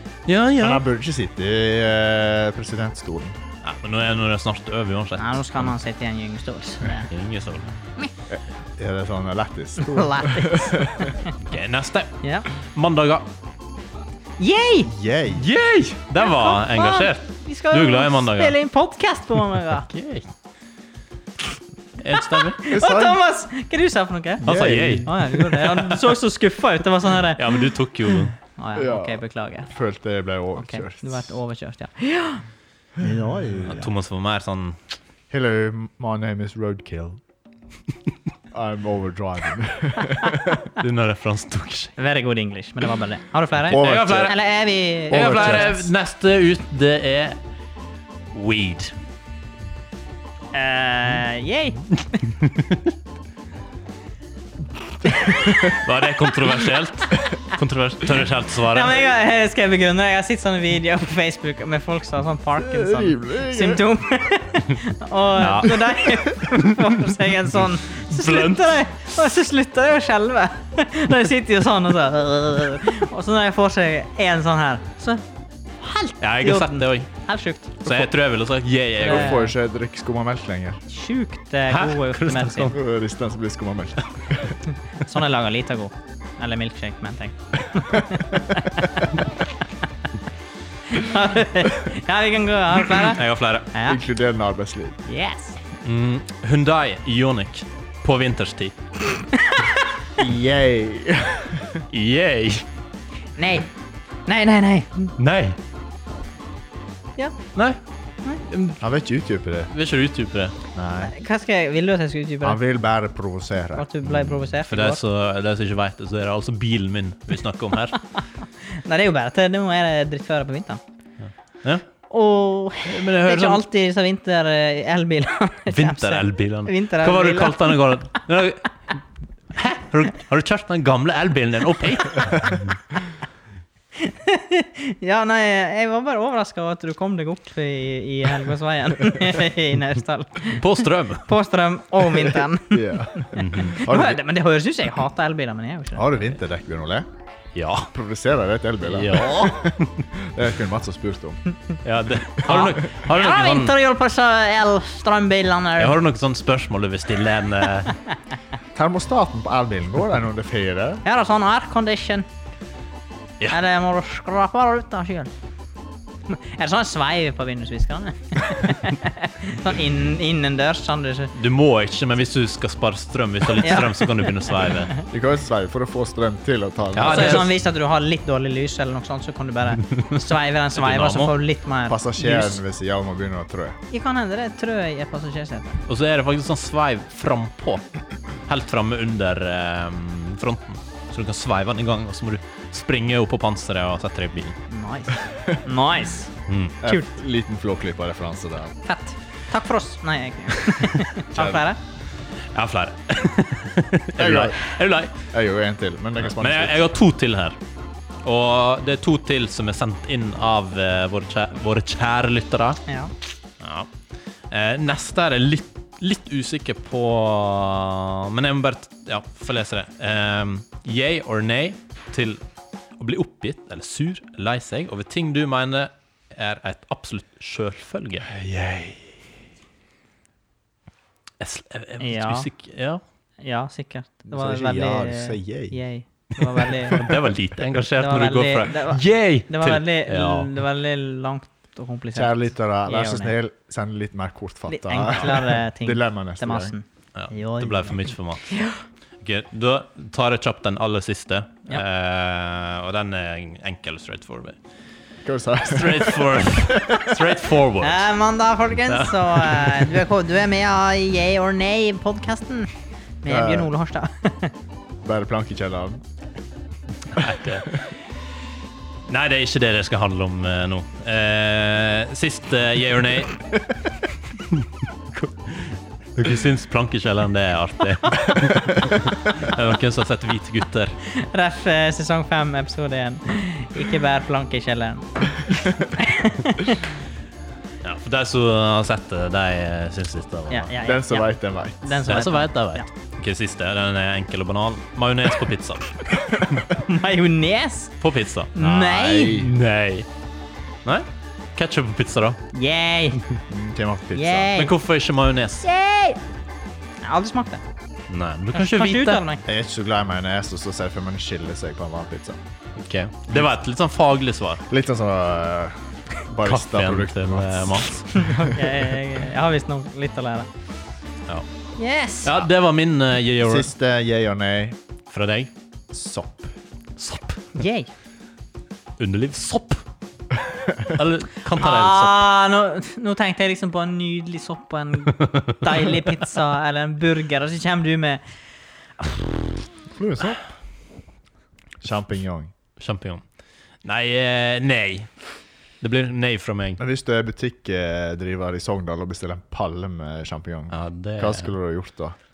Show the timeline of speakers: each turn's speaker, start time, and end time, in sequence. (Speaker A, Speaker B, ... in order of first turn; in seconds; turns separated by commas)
Speaker A: 0.3-0.8, Speaker B: 0.6-3.4, Speaker A: 3.6-5.7, Speaker C: 5.2-7.1, Speaker A: 7.1-7.7, Speaker B: 8.3-11.1, Speaker C: 9.8-11.3, Speaker A: 11.4-13.3, Speaker C: 14.4-14.9, Speaker B: 14.8-15.5, Speaker A: 15.3-18.6, Speaker C: 16.2-19.9, Speaker A: 19.8-20.3, Speaker A: 22.0-22.6, Speaker C: 22.3-29.7, Speaker B: 22.7-23.2, Speaker B: 24.4-25.1, Speaker A: 24.4-26.1, Speaker A: 27.2-28.4, Speaker B: 28.8-31.3, Speaker C: 30.6-32.4, Speaker B: 33.0-33.9, Speaker C: 33.0-33.5, Speaker A: 33.6-34.8, Speaker B: 35.3-37.2, Speaker B: 38.5-40.7, Speaker A: 40.8-42.0, Speaker C: 42.0-45.8, Speaker B: 43.7-44.4, Speaker A: 43.7-44.4, Speaker A: 45.1-47.4, Speaker B: 45.1-45.9, Speaker A: 48.3-48.9, Speaker C: 50.5-51.8, Speaker A: 52.3-52.9, Speaker B: 55.4-55.7, Speaker A: 55.6-59.0, Speaker C: 58.7-75.2, Speaker B: 62.5-63.8, Speaker A: 65.4-66.6, Speaker A: 68.1-68.8, Speaker C: 75.8-78.0, Speaker A: 76.2-77.1, Speaker A: 77.8-79.5, Speaker B: 79.0-80.8, Speaker C: 79.0-79.5, Speaker C: 80.9-82.7, Speaker A: 81.7-82.8, Speaker B: 82.7-84.5, Speaker C: 85.0-89.2, Speaker C: 90.9-93.2, Speaker A: 93.0-93.7, Speaker C: 93.7-94.0, Speaker B: 93.8-95.0, Speaker C: 95.0-95.6, Speaker A: 95.8-98.7, Speaker C: 99.3-99.8, Speaker B: 100.2-101.8, Speaker A: 101.9-102.7, Speaker C: 103.4-103.7, Speaker C: 104.2-105.1, Speaker A: 105.2-105.6, Speaker A: 108.5-108.8, Speaker B: 108.8-109.7, Speaker A: 109.7-110.5, Speaker B: 110.7-111.1, Speaker C: 111.0-112.6, Speaker B: 112.4-114.2, Speaker C: 113.8-115.0, Speaker A: 114.7-118.0, Speaker C: 118.7-120.8, Speaker C: 122.1-127.8, Speaker A: 122.8-123.6, Speaker A: 125.7-128.8, Speaker A: 129.5-132.7, Speaker C: 134.0-146.3, Speaker A: 140.5-141.3, Speaker B: 142.1-144.2, Speaker A: 143.3-143.8, Speaker B: 145.9-147.1, Speaker A: 147.5-147.9, Speaker B: 147.9-151.4, Speaker A: 148.8-150.1, Speaker A: 151.8-153.7, Speaker C: 152.4-156.0, Speaker A: 155.8-157.9, Speaker B: 158.7-161.0, Speaker C: 161.0-162.3, Speaker C: 163.5-165.3, Speaker C: 166.3-171.3, Speaker A: 171.3-174.9, Speaker C: 173.6-175.0, Speaker B: 175.1-177.5, Speaker A: 176.9-177.5, Speaker C: 177.0-182.6, Speaker A: 180.7-181.4, Speaker B: 181.9-183.8, Speaker C: 183.9-185.8, Speaker A: 185.9-194.6, Speaker C: 194.7-196.3, Speaker A: 196.5-196.8, Speaker B: 196.8-198.7, Speaker C: 196.8-197.1, Speaker C: 198.8-201.8, Speaker B: 201.3-201.6, Speaker A: 202.5-205.1, Speaker B: 204.2-204.7, Speaker B: 205.3-206.8, Speaker A: 206.2-207.6, Speaker A: 208.2-212.8, Speaker C: 212.9-213.1, Speaker A: 213.6-213.9, Speaker A: 214.5-222.4, Speaker A: 223.0-228.3, Speaker B: 228.3-229.2, Speaker A: 231.4-233.0, Speaker C: 232.0-232.5, Speaker C: 233.4-237.1, Speaker B: 234.3-235.8, Speaker A: 236.6-240.5, Speaker C: 238.0-243.3, Speaker B: 242.1-246.7, Speaker C: 244.7-248.8, Speaker A: 247.1-248.5, Speaker A: 249.2-254.6, Speaker B: 255.2-257.3, Speaker A: 255.7-258.1, Speaker C: 257.8-262.7, Speaker A: 258.9-260.0, Speaker C: 263.2-264.5, Speaker B: 263.3-263.7, Speaker B: 265.0-266.0, Speaker A: 267.1-268.1, Speaker A: 269.1-273.4, Speaker A: 274.3-281.0, Speaker C: 281.1-286.8, Speaker A: 287.8-290.7, Speaker C: 290.5-291.3, Speaker B: 290.8-292.1, Speaker C: 291.8-292.9, Speaker A: 292.1-296.6, Speaker C: 296.7-297.9, Speaker A: 298.0-300.1, Speaker C: 298.5-299.4, Speaker B: 298.7-299.5, Speaker A: 300.8-302.4, Speaker C: 302.5-303.2, Speaker B: 303.5-304.5, Speaker C: 304.1-304.7, Speaker A: 304.6-305.6, Speaker C: 305.6-306.2, Speaker C: 307.0-307.6, Speaker A: 308.1-309.2, Speaker C: 308.5-309.4, Speaker B: 309.4-312.4, Speaker A: 312.8-314.6, Speaker B: 314.7-317.9, Speaker A: 316.4-318.1, Speaker C: 318.1-320.5, Speaker C: 321.8-322.4, Speaker A: 322.2-323.7, Speaker B: 323.4-324.8, Speaker A: 325.1-325.5, Speaker B: 325.9-326.5, Speaker A: 327.0-327.5, Speaker C: 327.5-327.9, Speaker A: 329.0-329.8, Speaker A: 330.9-332.2, Speaker C: 331.6-338.2, Speaker B: 339.9-340.4, Speaker B: 341.8-342.5, Speaker A: 342.8-343.2, Speaker A: 343.8-345.2, Speaker A: 345.8-346.8, Speaker B: 346.8-352.2, Speaker A: 350.7-351.5